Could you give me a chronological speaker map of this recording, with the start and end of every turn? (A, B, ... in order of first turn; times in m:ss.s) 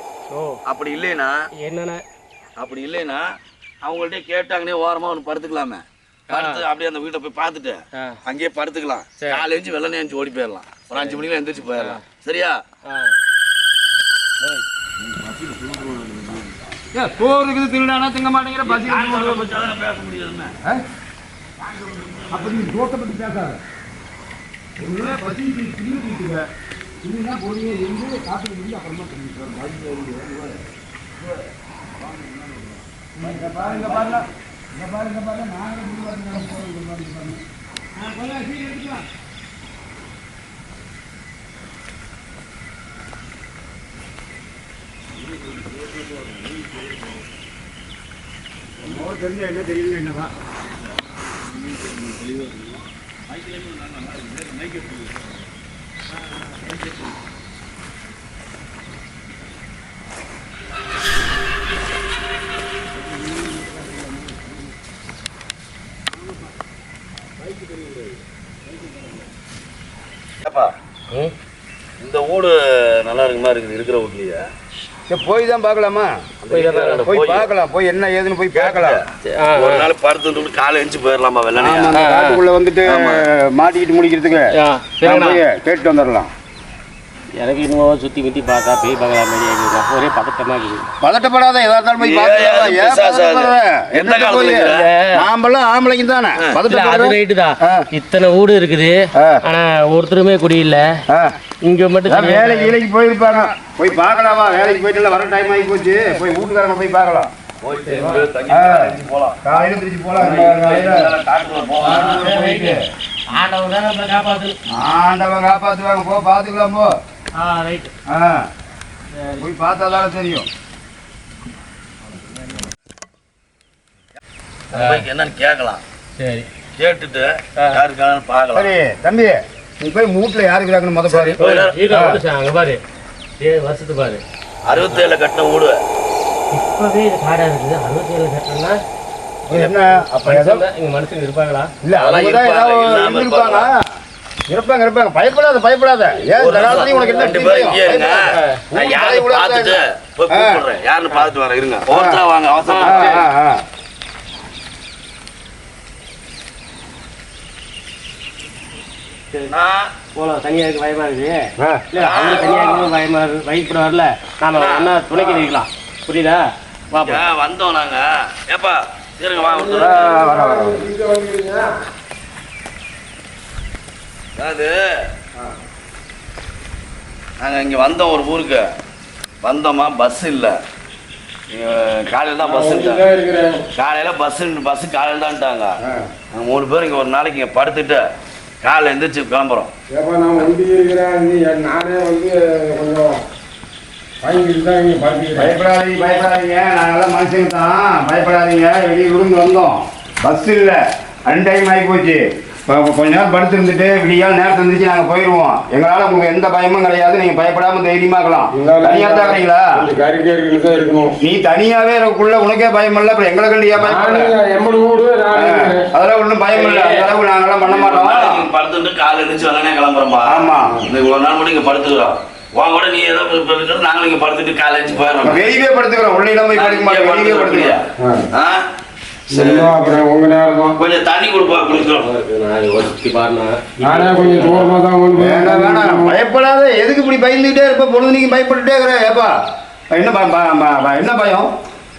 0:00.3-0:00.6 A
0:00.7-0:01.4 B
0:01.6-0:02.0 A
0:02.6-0:12.6 B
0:06.3-0:06.6 A
0:07.9-0:08.2 A
0:10.9-0:12.0 A
0:12.8-0:13.1 A
0:15.0-0:16.6 B
0:16.9-0:19.6 C
0:18.6-0:20.5 B
0:21.6-0:22.7 B
0:22.3-0:23.6 C
0:24.8-0:26.5 C
0:27.0-0:29.6 C
0:29.5-0:30.6 B
0:32.0-0:34.1 B
0:33.2-0:37.4 C
0:38.0-0:38.9 C
0:45.3-0:47.2 B
0:48.8-0:50.3 C
0:50.7-0:55.4 B
1:07.6-1:07.9 B
1:10.4-1:10.7 B
1:12.0-1:14.5 B
1:15.1-1:16.3 C
1:16.4-1:17.5 B
1:16.5-1:17.1 A
1:17.0-1:19.0 C
1:18.5-1:22.0 B
1:19.2-1:19.9 A
1:21.6-1:26.3 C
1:21.9-1:22.4 A
1:22.9-1:23.2 B
1:24.5-1:25.4 A
1:27.4-1:30.9 A
1:31.0-1:37.8 C
1:32.0-1:34.9 B
1:34.7-1:35.2 A
1:36.7-1:40.9 A
1:39.2-1:39.4 C
1:41.6-1:42.8 A
1:42.0-1:47.3 C
1:47.6-1:49.4 B
1:47.7-1:48.2 A
1:48.5-1:51.1 C
1:50.2-1:52.2 B
1:51.8-1:52.8 C
1:52.0-1:52.8 A
1:53.3-1:54.6 A
1:54.7-1:56.9 C
1:57.4-1:57.9 A
1:58.1-1:58.4 C
1:59.2-1:59.4 A
1:59.4-2:00.5 C
2:04.7-2:05.0 A
2:04.7-2:05.8 B
2:06.2-2:06.5 A
2:06.8-2:08.7 B
2:08.5-2:12.2 C
2:11.1-2:11.8 B
2:11.4-2:12.8 A
2:13.4-2:15.0 A
2:14.6-2:15.8 B
2:16.5-2:18.8 A
2:19.5-2:20.6 C
2:20.2-2:21.7 A
2:21.8-2:23.8 C
2:21.9-2:23.7 B
2:24.5-2:30.6 C
2:26.3-2:33.2 B
2:28.3-2:28.6 A
2:31.9-2:32.2 C
2:32.6-2:33.2 A
2:32.8-2:33.6 C
2:39.5-2:39.9 B
2:40.1-2:47.2 A
2:42.0-2:42.9 B
2:44.5-2:45.0 B
2:47.0-2:50.2 B
2:49.4-2:51.7 D
2:49.7-2:50.8 C
2:54.4-2:54.9 B
2:57.4-2:58.7 B
2:59.4-3:00.6 B
3:01.5-3:03.1 B
3:02.4-3:03.6 D
3:03.8-3:05.7 B
3:06.3-3:08.0 B
3:08.6-3:09.7 B
3:09.9-3:13.2 D
3:14.2-3:15.5 D
3:15.3-3:29.7 C
3:28.5-3:31.1 D
3:31.2-3:34.3 C
3:33.8-3:35.9 D
3:35.3-3:38.4 C
3:36.5-3:37.1 B
3:37.6-3:45.5 B
3:40.2-3:40.9 C
3:45.2-3:47.8 C
3:46.5-3:48.6 B
3:48.0-3:48.2 D
3:49.3-3:49.9 B
3:49.3-3:50.8 D
3:50.7-3:52.1 B
3:51.8-3:54.7 A
3:53.8-3:56.1 D
3:55.1-3:59.3 C
3:59.9-4:01.5 C